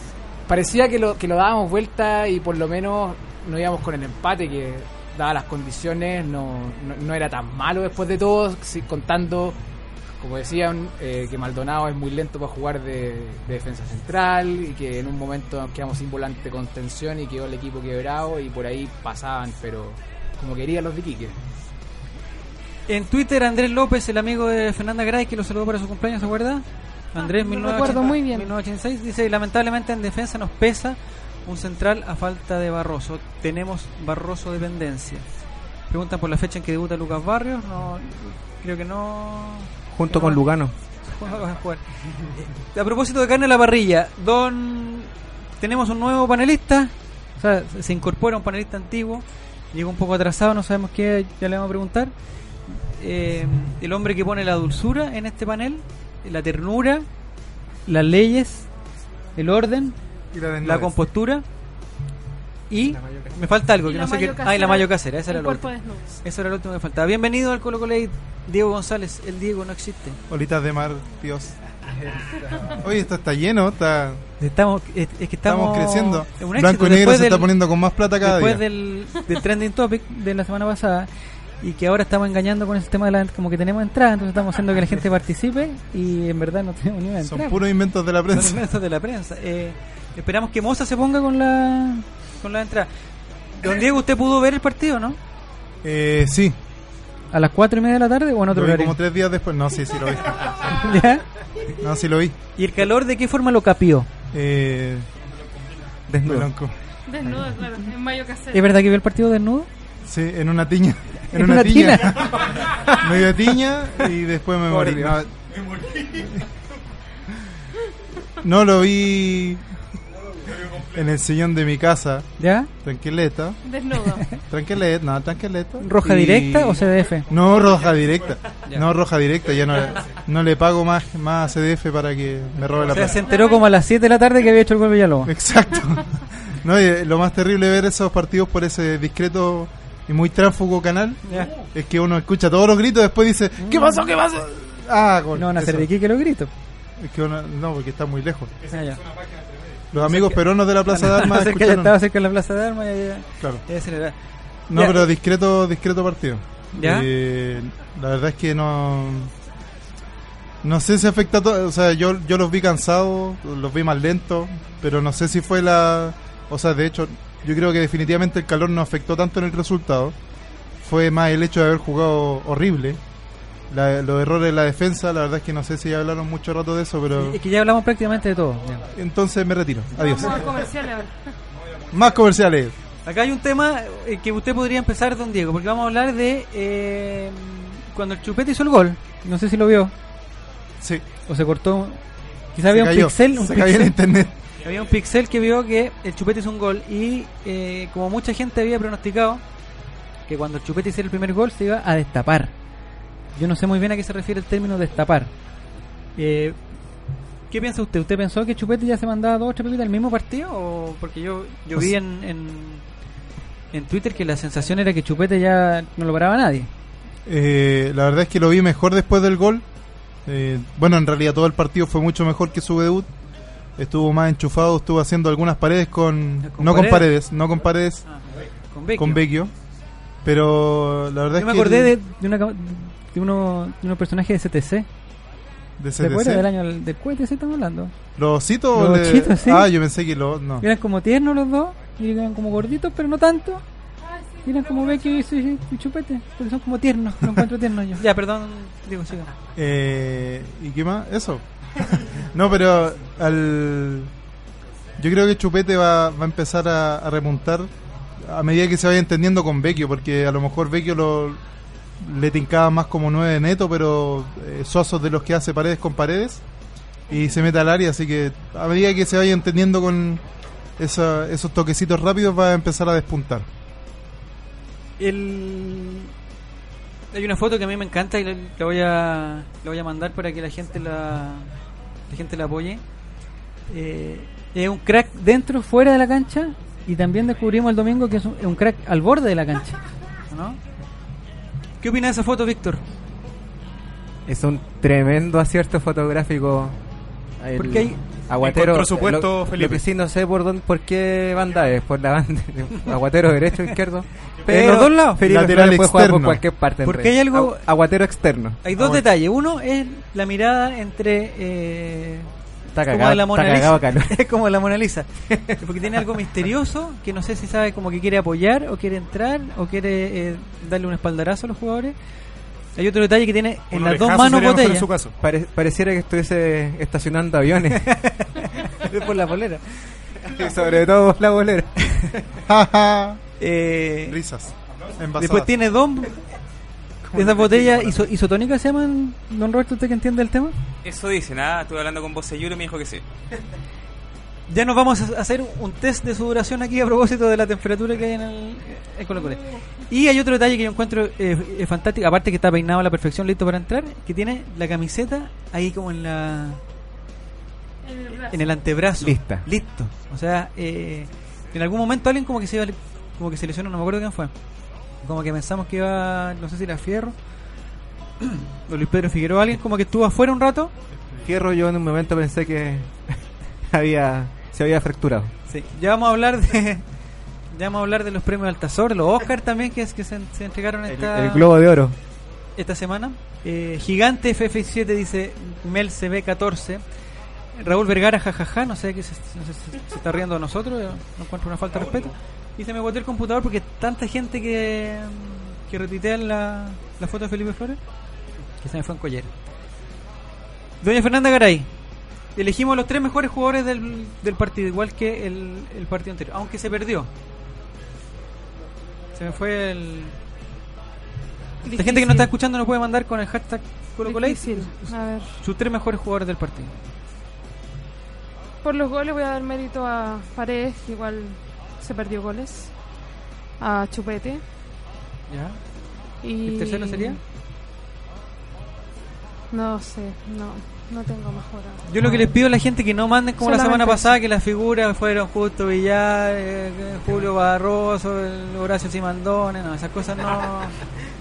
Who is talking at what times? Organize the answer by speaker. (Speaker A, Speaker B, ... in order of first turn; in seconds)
Speaker A: 0.5-9.6, 10.2-21.4
Speaker B: 22.9-35.3, 35.9-52.1, 52.7-57.1, 57.9-58.7, 59.4-60.0, 60.6-61.5, 62.7-70.2, 74.4-77.5, 78.2-87.6, 88.3-92.9, 93.5-95.2, 97.3-99.0, 100.7-101.2, 102.6-104.1, 106.1-106.5, 108.5-109.7, 111.3-113.1, 122.4-122.7, 125.8-127.3, 132.9-135.3, 141.3-141.6, 143.6-144.1, 145.3-146.5, 148.7-149.0, 150.0-154.2, 154.7-155.1, 156.8-157.1, 177.2-178.9, 183.1-189.9, 191.3-192.0, 192.5-194.0, 194.6-199.4, 200.3-202.5, 203.4-205.3, 206.2-206.6, 207.5-212.8, 213.7-216.7, 226.4-227.1, 228.1-229.2, 231.4-234.9, 236.0-237.9, 238.8-239.7, 240.6-243.6, 244.4-249.3, 275.0-276.1, 277.1-281.5, 282.1-282.8, 283.7-290.6, 291.8-292.8, 297.6-298.0, 304.5-305.2, 306.8-307.6, 308.6-312.3, 312.8-322.0, 322.8-324.9, 327.8-330.0, 333.4-334.2, 335.2-336.2, 337.1-340.6, 344.5-356.6, 358.3-364.3, 365.0-367.2, 368.2-370.7, 375.5-376.9, 377.5-381.5, 382.6-386.8, 387.6-397.8, 398.6-399.3, 400.8-401.7, 402.4-407.1, 409.1-410.2, 411.7-416.7, 425.3-425.6, 426.4-427.2, 431.9-440.8
Speaker C: 27.2-28.5, 63.8-66.0, 107.1-108.7, 123.7-124.3, 133.2-133.7, 179.9-181.3, 244.0-245.2, 349.1-349.6, 357.8-358.4, 411.6-412.3, 414.0-415.4, 418.6-422.8, 423.6-424.4, 426.2-427.2, 429.5-432.4, 433.4-434.2
Speaker D: 39.9-40.7, 126.0-126.9, 294.3-296.8, 297.4-308.9, 312.8-314.1, 325.2-327.9, 328.7-329.1, 330.2-332.0, 337.1-337.9, 359.0-359.4, 371.2-375.3, 380.9-382.0
Speaker E: 60.3-60.9, 70.3-71.6, 72.7-74.2, 75.5-78.6, 87.2-88.7, 95.8-96.6, 98.5-100.8, 101.8-102.4, 104.3-105.1, 106.2-106.7, 110.0-116.4, 118.4-119.7, 120.7-123.7, 124.4-125.9, 127.3-133.2, 135.2-145.9, 147.0-148.6, 149.9-151.9, 154.7-159.3, 160.6-170.2, 170.8-173.0, 173.7-177.4, 178.9-180.7, 181.9-182.8, 190.8-191.1, 192.6-194.4, 217.3-219.7, 220.3-223.1, 223.8-228.1, 229.0-229.5, 230.2-231.9, 235.8-236.5, 238.2-240.7, 249.6-254.1, 255.0-261.4, 262.0-266.4, 267.1-270.2, 270.8-273.5, 305.2-306.4, 332.5-333.2, 334.1-335.5
Speaker F: 298.4-299.9, 323.7-325.1
Speaker G: 340.8-343.1